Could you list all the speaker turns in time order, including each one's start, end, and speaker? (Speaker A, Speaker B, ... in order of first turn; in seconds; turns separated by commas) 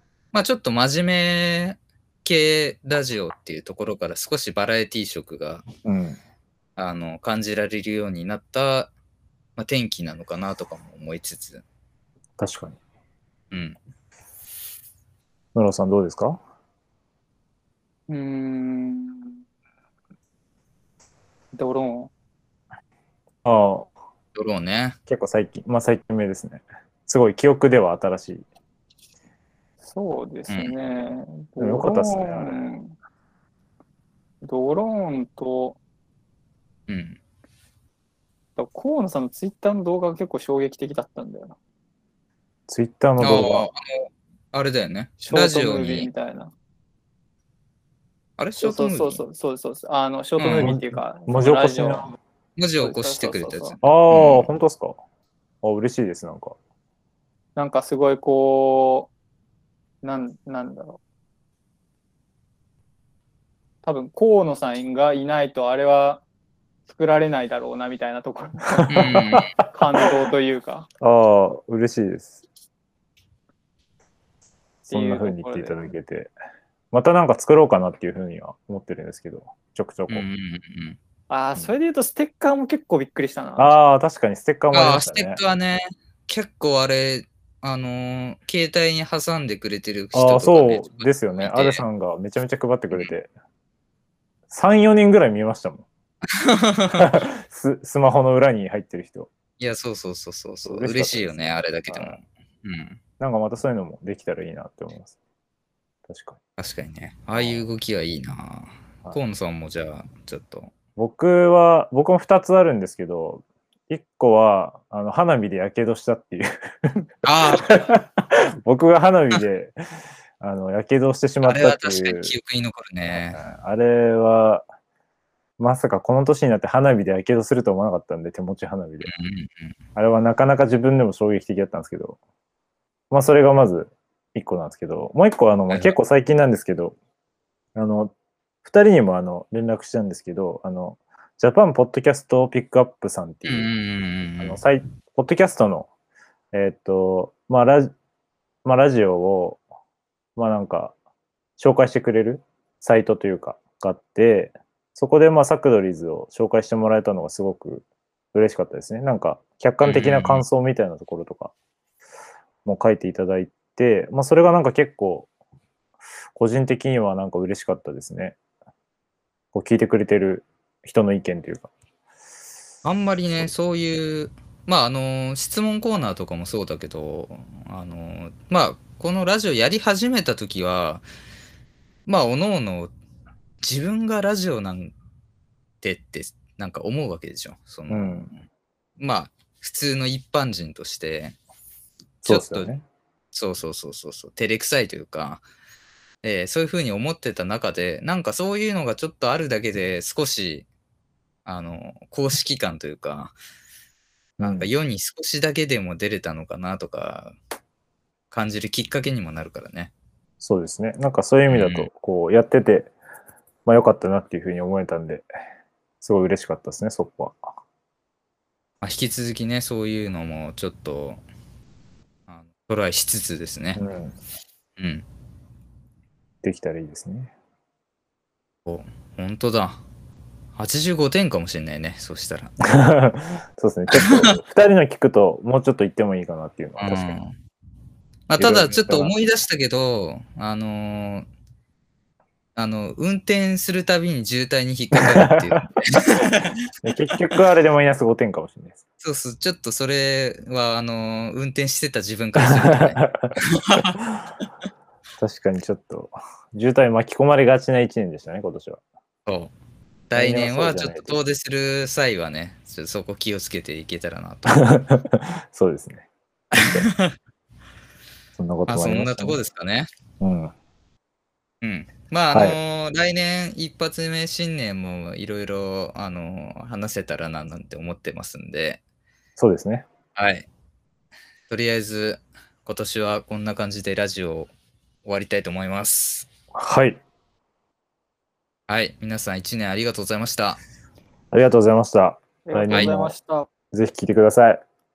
Speaker A: 0.3-5.6, Speaker B: 5.8-6.2, Speaker A: 6.8-8.9, Speaker A: 9.6-11.6, Speaker B: 12.4-12.8, Speaker A: 13.5-13.8, Speaker B: 15.5-16.4, Speaker C: 18.1-19.4, Speaker C: 21.5-22.1, Speaker B: 23.4-23.9, Speaker A: 24.3-25.0, Speaker B: 25.1-28.4, Speaker C: 29.8-32.9, Speaker A: 30.5-30.7, Speaker B: 31.6-32.7, Speaker C: 34.4-35.8, Speaker A: 36.9-37.2, Speaker C: 38.5-41.6, Speaker B: 42.7-43.7, Speaker A: 43.2-46.1, Speaker C: 45.2-46.5, Speaker A: 48.4-49.2, Speaker C: 48.6-52.1, Speaker A: 50.4-50.7, Speaker B: 50.5-52.1, Speaker A: 52.6-54.5, Speaker C: 52.8-53.8, Speaker B: 53.8-55.0, Speaker B: 55.6-56.5, Speaker C: 57.5-59.1, Speaker C: 60.0-61.0, Speaker C: 63.8-66.2, Speaker C: 66.9-68.9, Speaker B: 68.7-69.6, Speaker A: 68.9-69.5, Speaker C: 69.7-70.9, Speaker B: 71.0-72.4, Speaker C: 74.9-75.8, Speaker B: 74.9-76.3, Speaker B: 76.9-80.3, Speaker A: 80.1-81.0, Speaker C: 81.3-83.8, Speaker B: 83.6-85.4, Speaker A: 84.7-91.8, Speaker B: 90.1-93.3, Speaker B: 94.5-95.9, Speaker A: 96.3-97.1, Speaker B: 97.0-99.3, Speaker A: 99.6-103.0, Speaker B: 100.6-102.2, Speaker B: 103.2-105.2, Speaker B: 106.1-106.4, Speaker A: 106.6-110.7, Speaker B: 107.3-107.6, Speaker B: 111.0-122.3, Speaker A: 117.2-117.9, Speaker A: 121.4-123.4, Speaker B: 123.1-124.6, Speaker B: 125.6-129.1, Speaker A: 129.0-129.7, Speaker B: 129.9-132.2, Speaker B: 133.1-136.9, Speaker B: 137.7-143.7, Speaker A: 143.4-144.6, Speaker B: 144.4-145.9, Speaker B: 146.5-147.9, Speaker B: 148.6-149.6, Speaker B: 150.3-150.9, Speaker B: 151.6-161.5, Speaker A: 159.8-160.4, Speaker B: 162.6-165.3, Speaker B: 166.3-168.4, Speaker B: 169.5-171.7, Speaker A: 172.8-181.1, Speaker A: 182.1-182.9, Speaker A: 183.6-184.9, Speaker A: 185.8-188.4, Speaker B: 187.9-188.3, Speaker A: 189.0-191.4, Speaker B: 192.2-192.8, Speaker A: 192.2-192.7, Speaker A: 193.3-195.4, Speaker A: 196.2-200.7, Speaker A: 201.4-203.3, Speaker B: 204.4-204.7, Speaker A: 204.4-207.3, Speaker A: 208.3-209.9, Speaker B: 210.4-212.9, Speaker A: 211.5-211.9, Speaker B: 213.7-215.2, Speaker B: 216.0-217.4, Speaker A: 218.8-221.2, Speaker A: 222.3-223.8, Speaker B: 223.7-224.1, Speaker A: 224.8-225.0, Speaker B: 226.4-227.3, Speaker A: 228.7-229.8, Speaker A: 230.6-232.5, Speaker B: 232.7-237.2, Speaker A: 233.9-234.3, Speaker A: 236.8-237.3, Speaker A: 238.3-241.3, Speaker B: 238.4-239.1, Speaker A: 242.6-246.6, Speaker B: 244.9-246.2, Speaker B: 246.8-248.8, Speaker A: 249.0-254.0, Speaker B: 252.3-254.0, Speaker B: 255.2-258.8, Speaker A: 259.2-259.5, Speaker A: 260.1-264.6, Speaker B: 260.1-261.2, Speaker B: 264.5-266.9, Speaker A: 266.5-267.1, Speaker B: 268.3-269.4, Speaker A: 268.7-269.9, Speaker B: 270.2-270.5, Speaker A: 271.6-278.8, Speaker B: 272.3-272.6, Speaker B: 279.4-279.9, Speaker A: 280.1-280.5, Speaker A: 281.5-284.5, Speaker A: 285.0-286.3, Speaker B: 286.5-287.0, Speaker A: 288.7-290.6, Speaker B: 291.3-293.1, Speaker C: 292.4-293.5, Speaker B: 293.7-294.6